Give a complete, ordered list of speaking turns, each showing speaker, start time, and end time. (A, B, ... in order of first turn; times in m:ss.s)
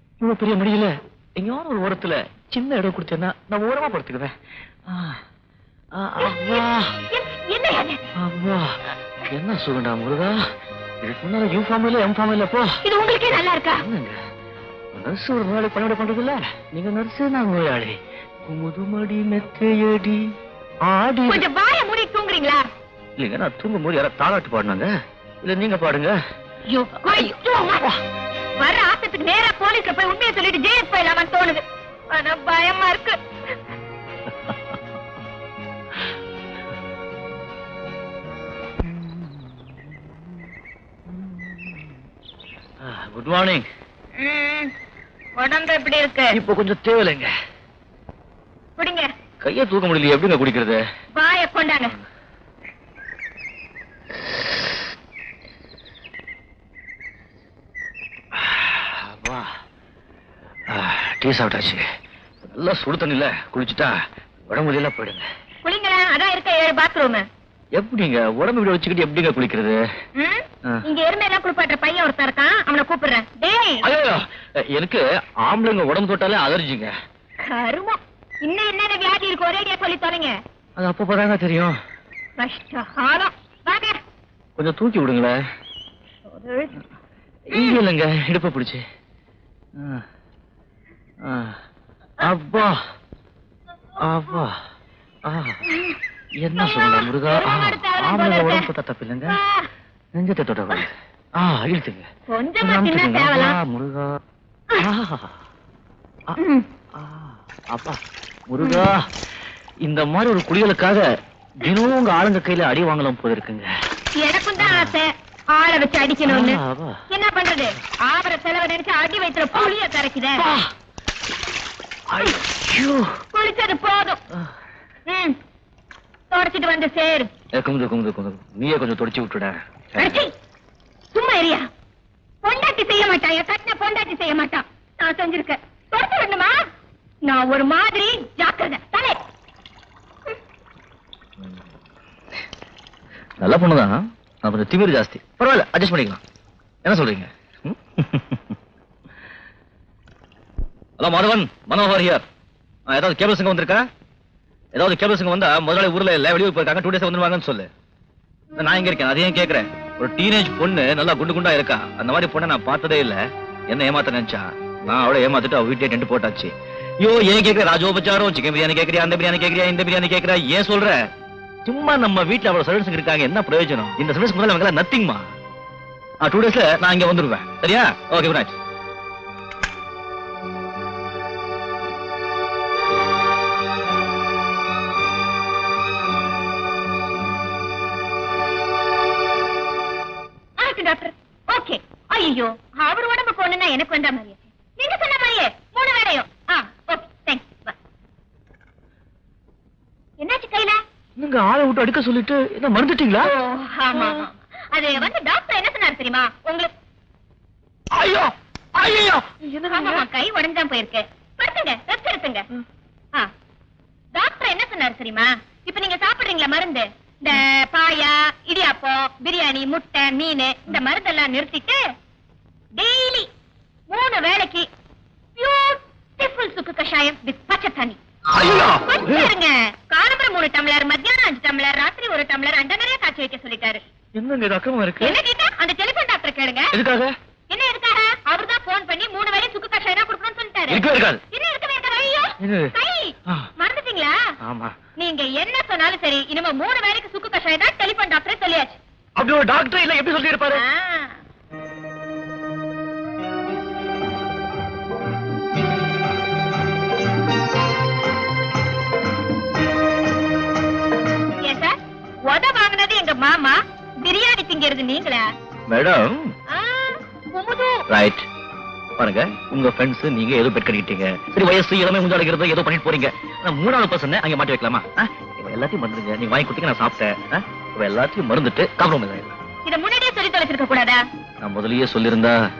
0:00.2-0:04.3 A
0:04.9-0:05.2 A
0:05.9-0:07.0 A
0:06.2-0:08.0 B
0:08.2-0:10.4 A
0:11.0-0:12.8 A
0:12.8-0:13.8 B
0:13.7-0:14.2 A
0:14.9-0:20.2 A
0:20.8-0:21.5 A
0:21.3-0:22.6 B
0:23.2-0:24.9 A
0:25.4-0:26.2 A
0:26.7-0:27.9 B
0:27.0-0:27.9 A
0:28.6-0:33.2 B
0:34.4-0:34.8 A
0:38.8-0:39.7 A
0:41.1-0:41.8 A
0:42.8-0:43.6 A
0:44.2-0:44.7 B
0:45.4-0:46.4 B
0:46.3-0:47.3 A
0:48.8-0:49.1 B
0:49.4-0:50.8 A
0:51.1-0:51.9 B
0:58.3-0:59.5 A
1:00.7-1:01.8 A
1:02.4-1:03.9 A
1:04.5-1:05.2 A
1:05.6-1:07.2 B
1:07.8-1:09.8 A
1:10.2-1:13.9 B
1:13.8-1:16.9 A
1:17.5-1:20.3 B
1:20.8-1:21.8 A
1:22.4-1:24.0 B
1:24.6-1:25.4 A
1:26.3-1:26.8 B
1:27.5-1:28.8 A
1:27.5-1:27.8 B
1:29.8-1:30.0 A
1:31.2-1:31.6 A
1:32.2-1:32.8 A
1:34.0-1:34.6 A
1:35.2-1:35.6 A
1:35.6-1:36.0 B
1:36.4-1:39.4 A
1:36.5-1:38.7 B
1:39.3-1:39.7 B
1:40.1-1:42.0 A
1:42.3-1:43.6 B
1:42.6-1:44.2 A
1:44.8-1:45.4 A
1:46.4-1:46.6 B
1:47.0-1:49.0 A
1:48.6-1:48.9 B
1:49.8-1:51.0 A
1:51.6-1:53.7 A
1:54.2-2:00.4 B
1:54.6-1:55.0 A
1:56.2-1:57.0 A
2:00.4-2:00.7 A
2:02.1-2:03.1 A
2:03.3-2:04.2 B
2:05.1-2:05.4 B
2:06.3-2:07.3 B
2:07.5-2:10.2 A
2:10.0-2:10.3 B
2:11.1-2:11.6 B
2:12.4-2:16.6 B
2:17.2-2:19.2 B
2:23.4-2:26.2 A
2:26.8-2:28.5 A
2:31.0-2:32.2 A
2:32.9-2:33.8 A
2:34.7-2:37.7 A
2:38.6-2:51.1 A
2:51.6-2:55.2 A
2:56.2-2:58.6 A
3:10.6-3:17.8 B
3:20.2-3:20.8 B
3:21.2-3:23.3 A
3:23.2-3:26.7 B
3:23.9-3:24.3 A
3:27.9-3:30.0 A
3:29.7-3:32.4 B
3:34.1-3:41.8 B
3:42.8-3:43.3 B
3:43.9-3:44.7 B
3:45.4-3:48.0 B
3:48.3-3:49.3 A
3:48.7-3:53.8 B
3:54.2-3:55.2 A
3:55.0-3:56.7 B
3:56.7-3:57.1 A
3:57.5-4:04.1 B
4:00.7-4:01.2 A
4:02.4-4:02.7 A
4:04.4-4:04.7 A
4:05.0-4:08.8 B
4:09.2-4:10.6 A
4:10.5-4:11.2 B
4:21.4-4:21.7 B
4:22.2-4:25.2 B
4:25.7-4:26.3 A
4:26.5-4:27.8 B
4:27.9-4:28.2 A
4:29.0-4:39.4 A
4:39.6-4:41.0 B
4:41.4-4:42.4 A